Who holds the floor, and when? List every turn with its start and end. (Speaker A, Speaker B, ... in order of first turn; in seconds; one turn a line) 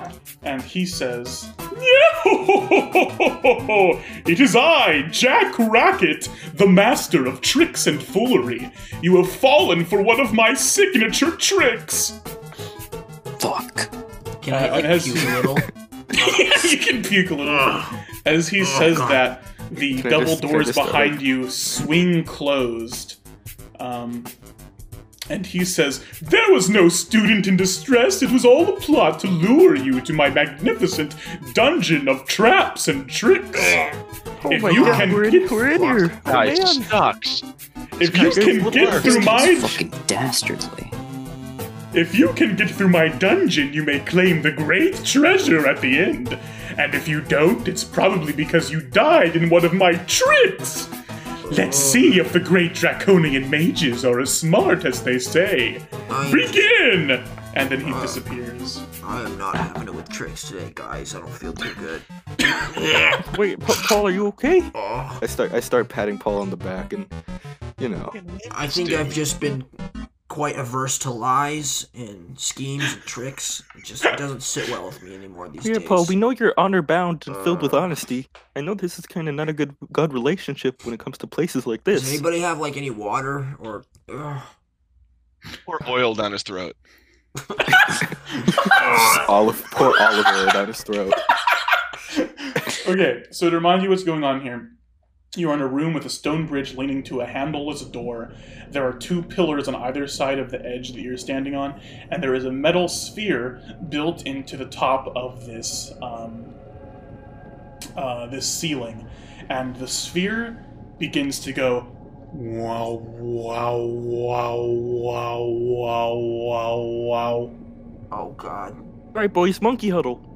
Speaker A: 0.4-12.2
Speaker B: 13.4-13.9
Speaker C: 14.4-16.7
Speaker A: 14.5-15.5
Speaker A: 16.1-23.2
Speaker C: 17.5-17.9
Speaker C: 18.6-19.2
Speaker D: 19.7-21.2
Speaker A: 23.8-24.3
Speaker A: 25.3-33.8
Speaker D: 34.5-36.8
Speaker A: 34.5-36.2
Speaker E: 36.2-37.4
Speaker A: 38.0-39.8
Speaker E: 38.2-39.0
Speaker D: 38.3-38.9
Speaker B: 38.9-40.9
Speaker A: 41.9-50.9
Speaker C: 51.5-52.2
Speaker A: 51.5-58.9
Speaker C: 56.1-56.6
Speaker C: 57.8-58.2
Speaker C: 59.0-63.3
Speaker D: 63.8-64.7
Speaker C: 64.7-65.2
Speaker D: 65.2-67.1
Speaker D: 67.8-68.1
Speaker E: 68.1-69.2
Speaker C: 68.5-69.7
Speaker C: 70.3-76.2
Speaker D: 75.7-82.2
Speaker C: 77.3-77.8
Speaker C: 81.9-84.5
Speaker E: 85.7-86.8
Speaker C: 87.4-88.0
Speaker C: 88.7-89.2
Speaker D: 89.1-91.2
Speaker A: 92.1-94.7
Speaker A: 95.3-106.5
Speaker A: 108.0-117.5
Speaker C: 118.1-118.8
Speaker D: 119.4-120.2